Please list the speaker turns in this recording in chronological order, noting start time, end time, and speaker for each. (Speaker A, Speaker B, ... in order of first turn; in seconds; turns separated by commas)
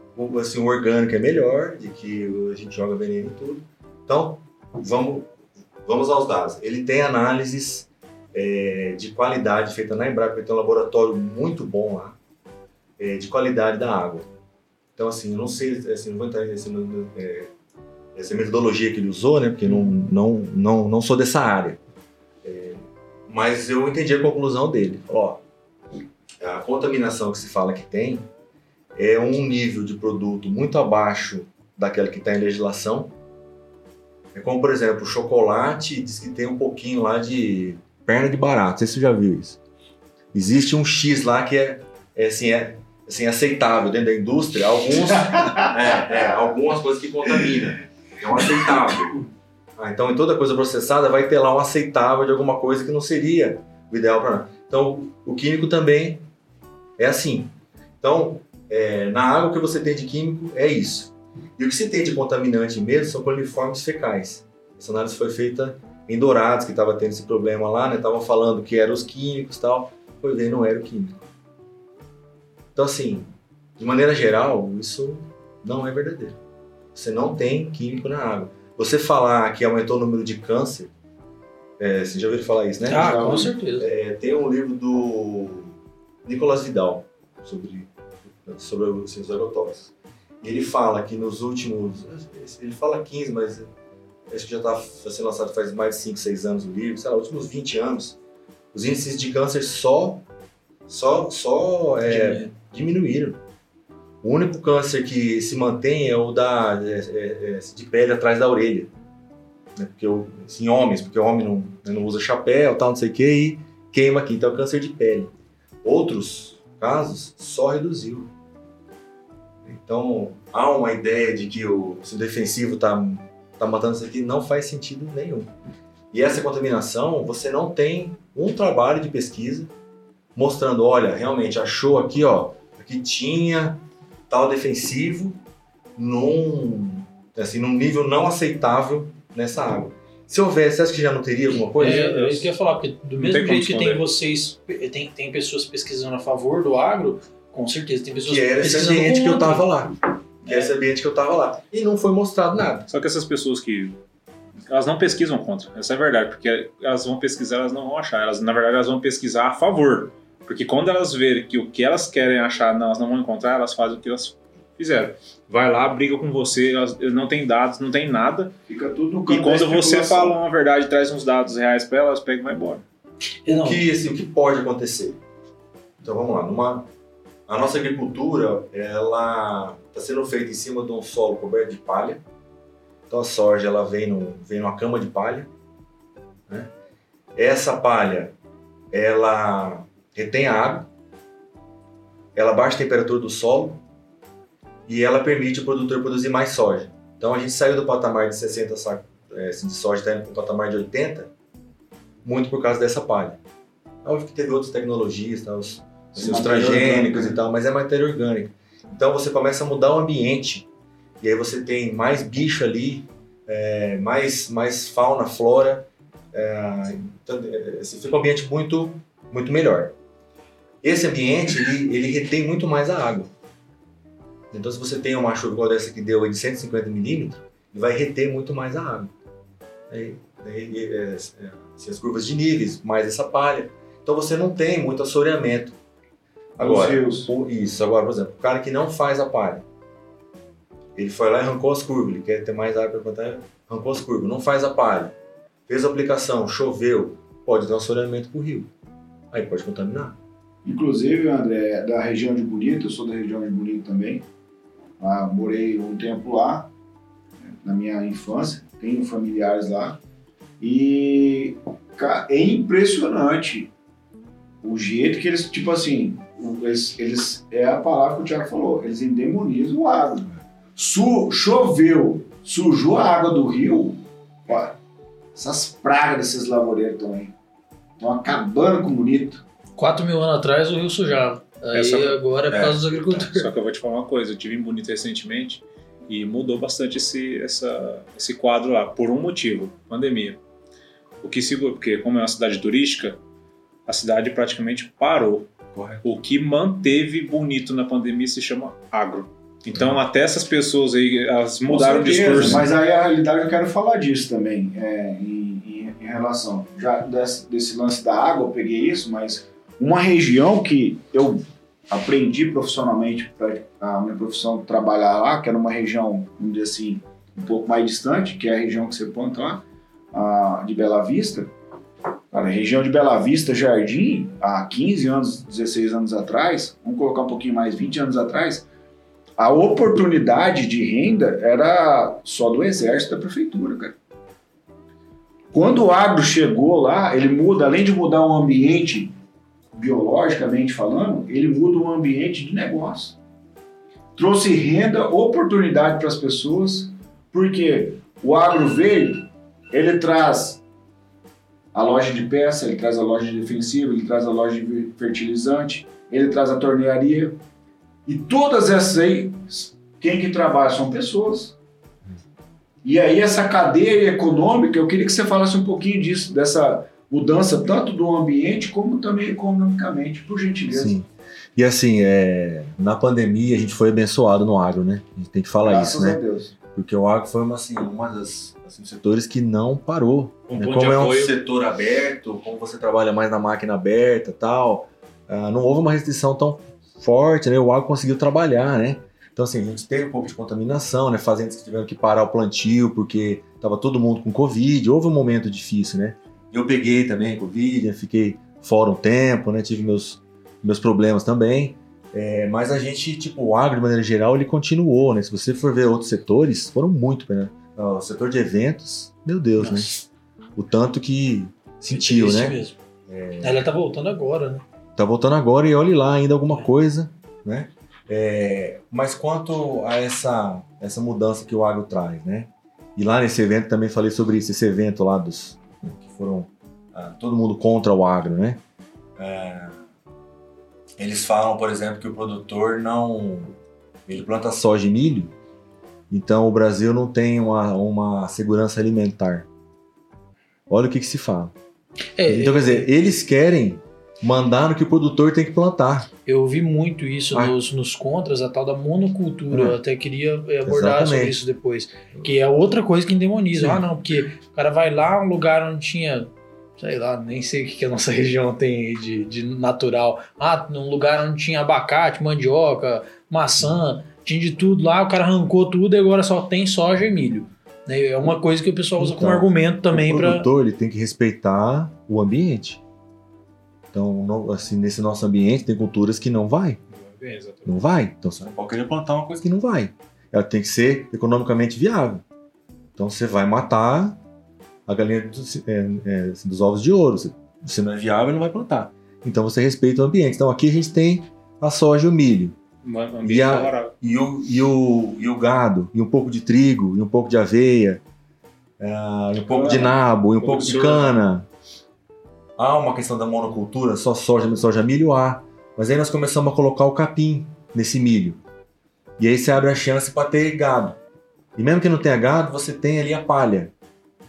Speaker A: 0.1-12.2, Speaker A: 13.0-14.3, Speaker A: 14.9-17.5, Speaker A: 18.1-21.8, Speaker A: 22.4-25.4, Speaker A: 26.4-28.3, Speaker A: 28.9-33.1, Speaker A: 34.3-39.6, Speaker A: 40.3-56.2, Speaker A: 57.0-71.2, Speaker A: 72.7-76.4, Speaker A: 76.9-80.9, Speaker A: 81.8-85.7, Speaker B: 82.8-83.9, Speaker C: 82.9-83.5, Speaker A: 86.2-93.7, Speaker A: 94.3-98.2, Speaker A: 98.7-100.2, Speaker A: 100.9-103.4, Speaker B: 102.0-102.4, Speaker A: 104.2-108.9, Speaker A: 109.8-115.3, Speaker A: 115.8-118.3, Speaker A: 119.6-125.5, Speaker A: 126.1-129.7, Speaker A: 130.3-135.4, Speaker A: 135.9-142.5, Speaker B: 141.8-149.7, Speaker D: 143.2-144.1, Speaker A: 148.2-152.9, Speaker D: 152.9-154.0, Speaker D: 154.7-168.5, Speaker C: 168.7-170.4, Speaker D: 169.3-172.8, Speaker B: 173.4-173.8, Speaker A: 173.4-175.2, Speaker A: 176.0-176.9, Speaker A: 177.5-182.2, Speaker A: 183.1-185.5, Speaker A: 187.3-188.3, Speaker A: 188.9-190.9, Speaker A: 192.3-193.8, Speaker A: 194.9-201.3, Speaker A: 202.2-203.4, Speaker A: 204.0-210.7, Speaker C: 206.1-207.4, Speaker A: 211.2-219.9, Speaker A: 220.8-223.3, Speaker A: 224.5-229.1, Speaker A: 229.9-235.8, Speaker A: 236.6-239.6, Speaker C: 236.6-237.3, Speaker A: 240.9-245.1, Speaker A: 245.7-248.7, Speaker A: 249.3-250.2, Speaker C: 250.6-254.2, Speaker C: 255.0-256.7, Speaker C: 257.4-260.0, Speaker C: 260.6-263.7, Speaker C: 264.6-274.8, Speaker C: 275.3-277.3, Speaker C: 278.0-279.4, Speaker B: 279.8-283.5, Speaker D: 281.7-282.2, Speaker A: 282.5-283.5, Speaker D: 283.3-290.4, Speaker D: 291.2-293.2, Speaker D: 293.9-295.5, Speaker A: 295.7-296.1, Speaker D: 296.0-302.7, Speaker C: 301.7-321.5, Speaker A: 302.2-302.7, Speaker C: 322.3-328.6, Speaker C: 329.4-333.9, Speaker C: 335.5-339.1, Speaker C: 339.7-343.2, Speaker C: 344.2-350.6, Speaker C: 351.7-357.4, Speaker C: 358.1-361.5, Speaker C: 362.8-371.0, Speaker A: 370.7-376.2, Speaker C: 375.6-376.5, Speaker A: 376.7-413.6, Speaker D: 380.5-381.4, Speaker B: 409.6-410.0, Speaker B: 411.9-412.8, Speaker B: 413.4-414.6, Speaker A: 415.0-428.6, Speaker A: 429.2-429.8, Speaker A: 431.0-433.5, Speaker A: 434.1-435.3, Speaker A: 436.1-439.5, Speaker A: 440.7-441.5, Speaker B: 442.1-442.9, Speaker A: 442.2-446.1, Speaker B: 446.2-470.5, Speaker A: 449.5-449.8, Speaker A: 450.6-451.4, Speaker A: 453.5-453.8, Speaker A: 469.0-472.8, Speaker A: 473.9-476.8, Speaker D: 476.9-477.7, Speaker A: 477.6-482.2, Speaker A: 482.9-484.2, Speaker A: 484.9-492.6, Speaker D: 492.8-493.9, Speaker A: 493.2-498.0, Speaker A: 498.8-501.5, Speaker C: 499.5-500.0, Speaker D: 500.4-501.1, Speaker A: 502.6-508.4, Speaker A: 509.2-511.0, Speaker A: 511.6-513.7